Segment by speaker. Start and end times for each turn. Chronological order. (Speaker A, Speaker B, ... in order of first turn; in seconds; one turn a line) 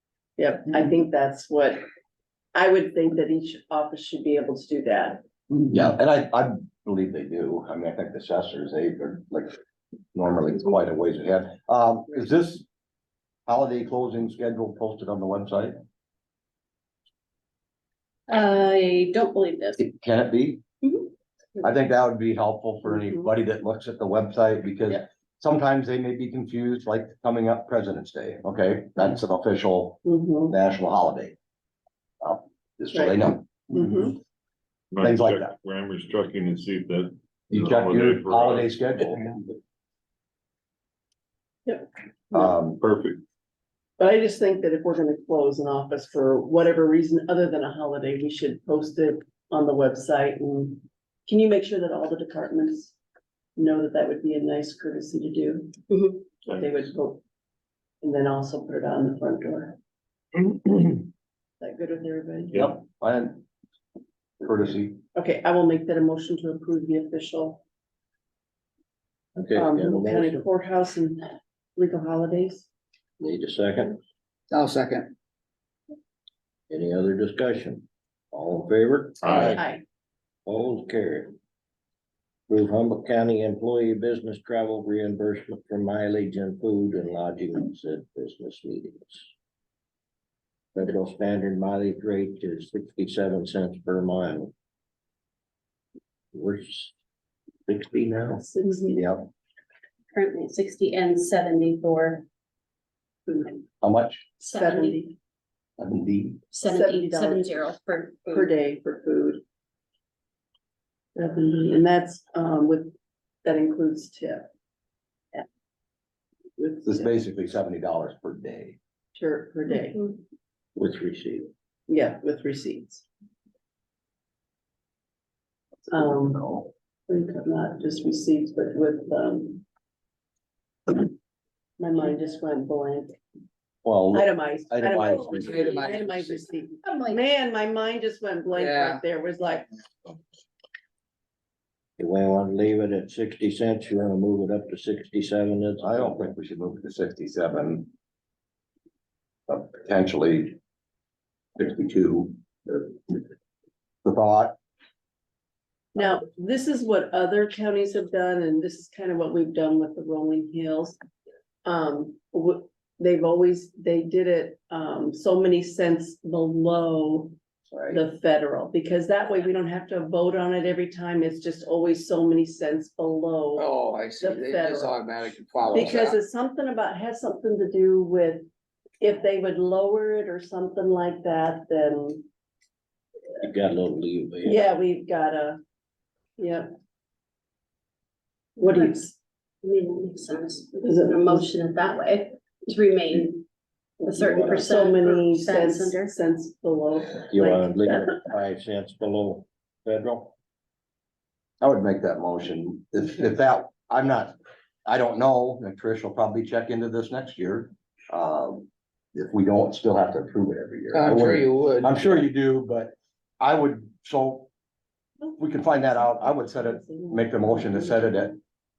Speaker A: 0.4-1.8
Speaker A: 2.5-5.2
Speaker B: 5.7-9.5
Speaker B: 10.1-12.7
Speaker B: 13.5-15.8
Speaker C: 18.3-19.8
Speaker B: 19.8-20.6
Speaker B: 21.6-31.4
Speaker A: 30.0-30.5
Speaker B: 32.2-34.1
Speaker A: 33.7-34.1
Speaker D: 34.9-39.2
Speaker B: 35.0-35.5
Speaker B: 37.5-39.4
Speaker A: 41.6-42.5
Speaker B: 42.3-42.8
Speaker D: 42.8-43.2
Speaker A: 44.0-53.0
Speaker A: 53.6-57.2
Speaker A: 58.0-59.8
Speaker A: 61.6-62.6
Speaker B: 62.5-63.5
Speaker B: 64.4-65.0
Speaker A: 65.1-67.6
Speaker E: 69.3-70.5
Speaker A: 69.5-72.7
Speaker E: 73.2-74.0
Speaker F: 74.5-75.1
Speaker E: 76.7-79.6
Speaker D: 79.2-79.6
Speaker A: 79.4-79.8
Speaker E: 80.5-81.3
Speaker E: 82.5-89.2
Speaker E: 90.7-94.5
Speaker E: 96.3-96.9
Speaker E: 97.7-98.5
Speaker A: 98.4-99.0
Speaker B: 99.0-99.2
Speaker C: 100.1-102.2
Speaker A: 103.3-103.5
Speaker B: 103.8-104.2
Speaker A: 104.4-105.1
Speaker C: 104.4-105.0
Speaker B: 105.8-106.4
Speaker C: 106.5-108.5
Speaker A: 106.6-107.7
Speaker A: 108.2-109.4
Speaker A: 111.2-112.9
Speaker A: 113.4-114.5
Speaker A: 116.6-117.1
Speaker B: 116.8-118.8
Speaker A: 119.2-120.2
Speaker E: 120.8-121.5
Speaker A: 121.9-123.0
Speaker A: 125.9-126.5
Speaker B: 125.9-126.7
Speaker A: 127.1-129.6
Speaker A: 131.8-133.2
Speaker B: 133.8-135.8
Speaker A: 134.1-139.7
Speaker F: 135.3-136.4
Speaker C: 136.8-137.2
Speaker F: 138.5-139.0
Speaker E: 142.0-146.3
Speaker B: 145.8-147.9
Speaker B: 149.5-150.6
Speaker B: 151.6-153.2
Speaker B: 154.0-154.6
Speaker A: 155.9-161.0
Speaker A: 161.6-167.3
Speaker A: 167.9-173.7
Speaker F: 173.6-176.2
Speaker A: 174.2-175.2
Speaker A: 175.7-178.4
Speaker A: 179.0-182.2
Speaker E: 183.4-184.7
Speaker A: 184.4-185.6
Speaker A: 186.4-186.7
Speaker C: 188.6-189.1
Speaker A: 188.6-189.1
Speaker C: 189.6-193.4
Speaker A: 190.8-191.5
Speaker A: 194.0-198.2
Speaker C: 194.0-196.2
Speaker E: 194.2-194.6
Speaker E: 197.3-200.3
Speaker B: 201.6-204.3
Speaker B: 204.8-214.5
Speaker F: 210.9-212.2
Speaker A: 215.2-218.1
Speaker B: 215.4-218.4